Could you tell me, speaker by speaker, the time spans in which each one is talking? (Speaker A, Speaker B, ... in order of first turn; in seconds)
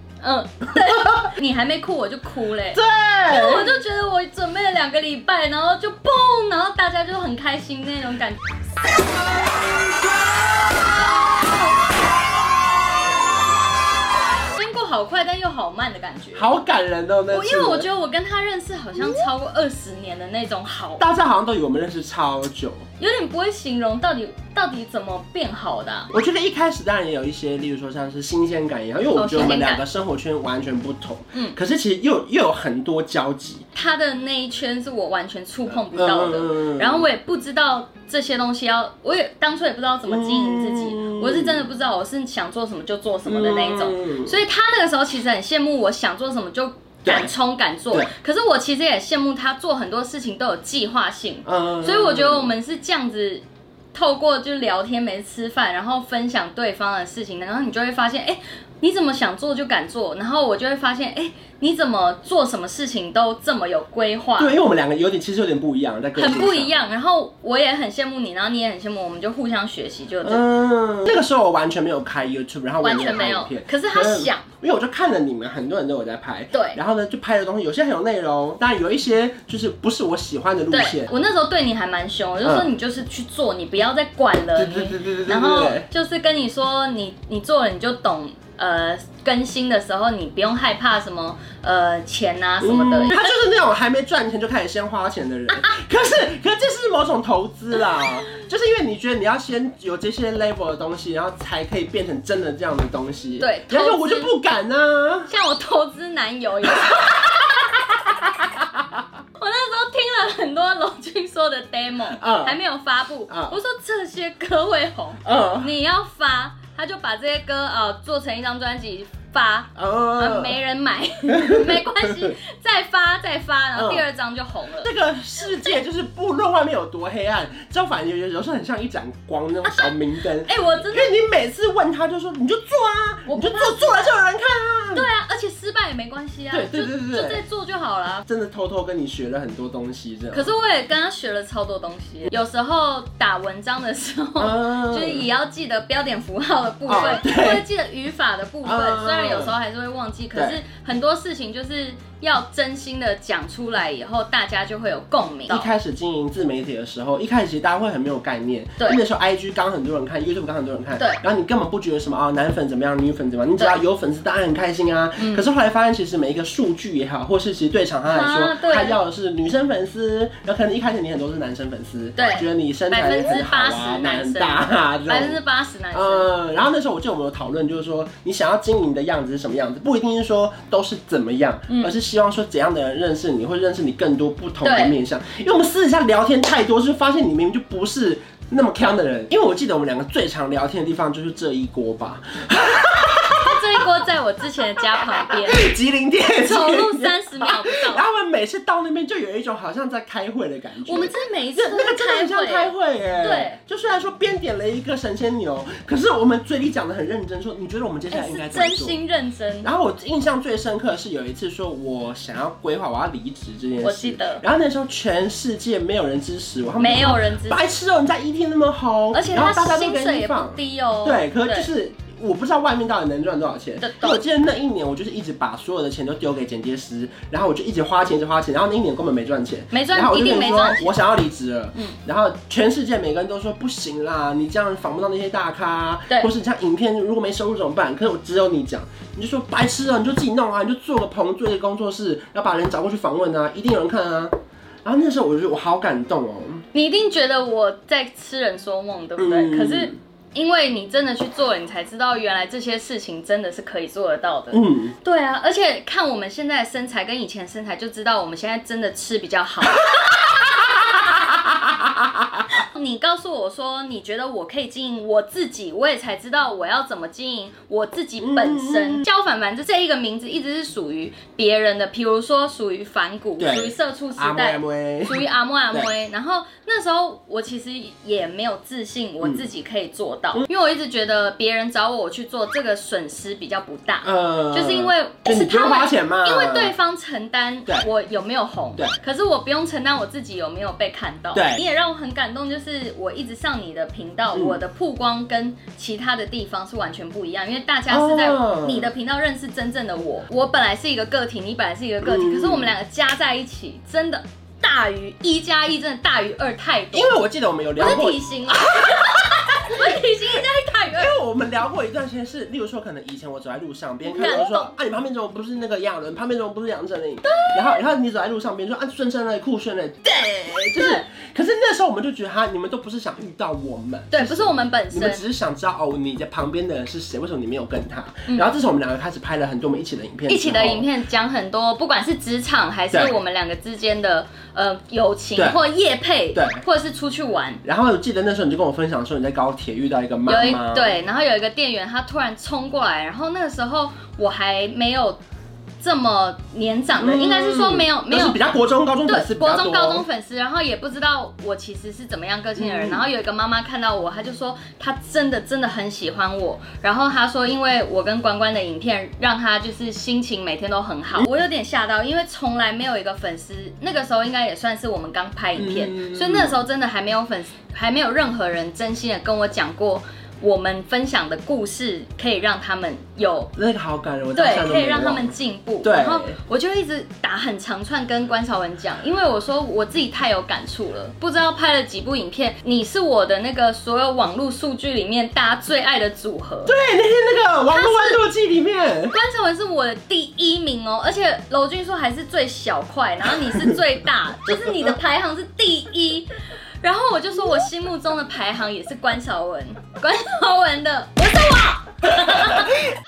Speaker A: 0.2-8.4, 14.5-16.5, 17.3-21.0, 23.0-26.1, 29.1-29.8, 33.7-64.5, 66.2-70.4, 72.8-74.4, 76.5-76.8, 80.7-93.3, 103.4-104.3, 105.3-107.7, 109.4-124.9, 129.6-131.2, 133.3-134.2, 134.9-138.2, 140.3-155.7, 165.2-165.5, 168.1-169.0, 172.2-176.3, 181.7-181.9, 184.6-184.9, 193.4-195.7, 196.4-198.0, 200.8-203.6, 208.1-209.7, 213.8-214.4, 216.8-217.6, 219.1-221.7, 223.8-224.2, 229.7-230.9, 246.7-260.2, 260.8-261.1, 262.5-307.1, 307.8-311.1, 314.0-314.7, 317.2-317.8, 320.8-321.0, 324.1-325.2, 330.3-337.6, 340.3-345.2, 345.8-348.4, 349.1-373.5, 374.3-386.7, 387.7-388.2, 389.1-396.3, 396.8-402.8
Speaker B: 0.9-1.3, 2.7-3.8, 16.3-17.9, 21.0-22.9, 26.1-33.6, 35.9-37.0, 40.1-41.6, 43.2-44.4, 47.0-47.3, 51.4-52.5, 64.4-66.8, 70.2-81.1, 82.4-82.7, 84.5-85.9, 92.6-105.3, 106.8-108.8, 112.2-112.6, 113.3-113.6, 115.2-115.7, 119.8-120.6, 121.4-122.3, 123.8-124.0, 124.8-135.1, 136.5-137.4, 138.2-140.5, 144.4-145.2, 146.9-147.7, 148.6-149.5, 150.3-150.6, 155.5-175.4, 175.9-193.8, 194.9-209.0, 209.6-246.6, 249.2-250.0, 254.5-254.9, 259.9-262.5, 268.2-269.1, 273.4-275.9, 284.0-286.7, 291.3-291.6, 294.3-294.6, 297.9-298.9, 302.0-302.7, 306.9-310.0, 310.9-330.9, 335.4-335.6, 336.3-336.6, 337.6-340.9, 347.0-350.0, 352.6-353.1, 365.6-366.6, 373.5-376.4, 386.6-389.1